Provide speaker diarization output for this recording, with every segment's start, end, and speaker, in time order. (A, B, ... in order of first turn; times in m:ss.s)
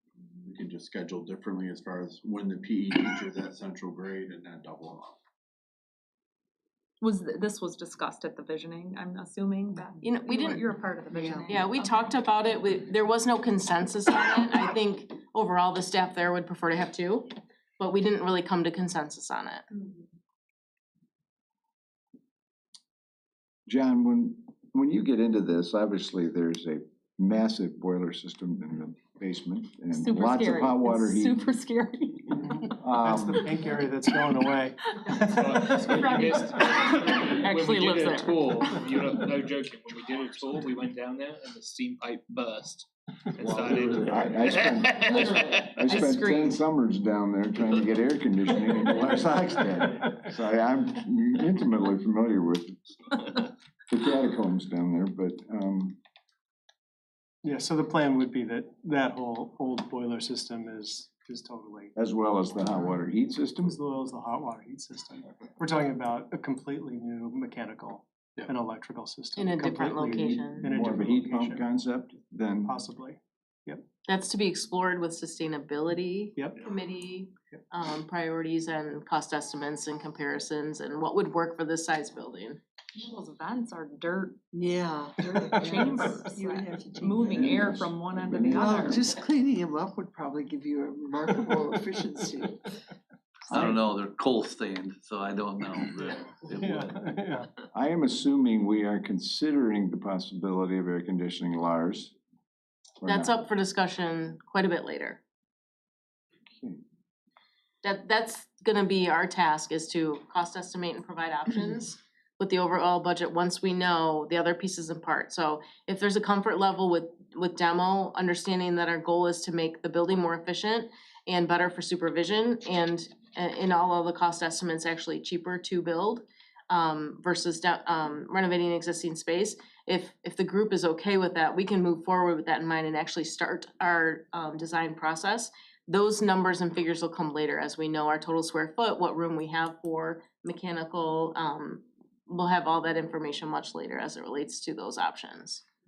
0:00.4-0:05.2 A
0:07.0-0:12.2 B
0:10.0-0:10.6 C
0:11.1-0:11.5 D
0:11.5-0:19.6 C
0:23.7-0:31.5 E
0:29.9-0:32.5 B
0:32.8-0:33.4 E
0:33.0-0:36.3 F
0:35.3-0:45.9 G
0:36.0-0:36.7 B
0:37.2-0:38.4 C
0:43.4-0:53.4 E
0:45.9-0:46.5 B
0:53.9-0:56.0 E
0:57.4-1:01.9 F
1:02.0-1:03.8 E
1:02.7-1:03.0 F
1:03.6-1:11.6 F
1:09.4-1:10.7 C
1:10.6-1:12.7 E
1:12.6-1:13.8 F
1:14.0-1:22.6 C
1:23.0-1:24.4 B
1:24.5-1:27.7 D
1:25.2-1:29.1 B
1:27.2-1:29.0 E
1:28.5-1:32.6 D
1:33.5-1:37.1 H
1:36.5-1:37.5 F
1:37.7-1:42.1 E
1:43.0-1:43.3 E
1:43.0-1:45.2 C
1:46.5-1:46.8 E
1:47.8-2:25.6 C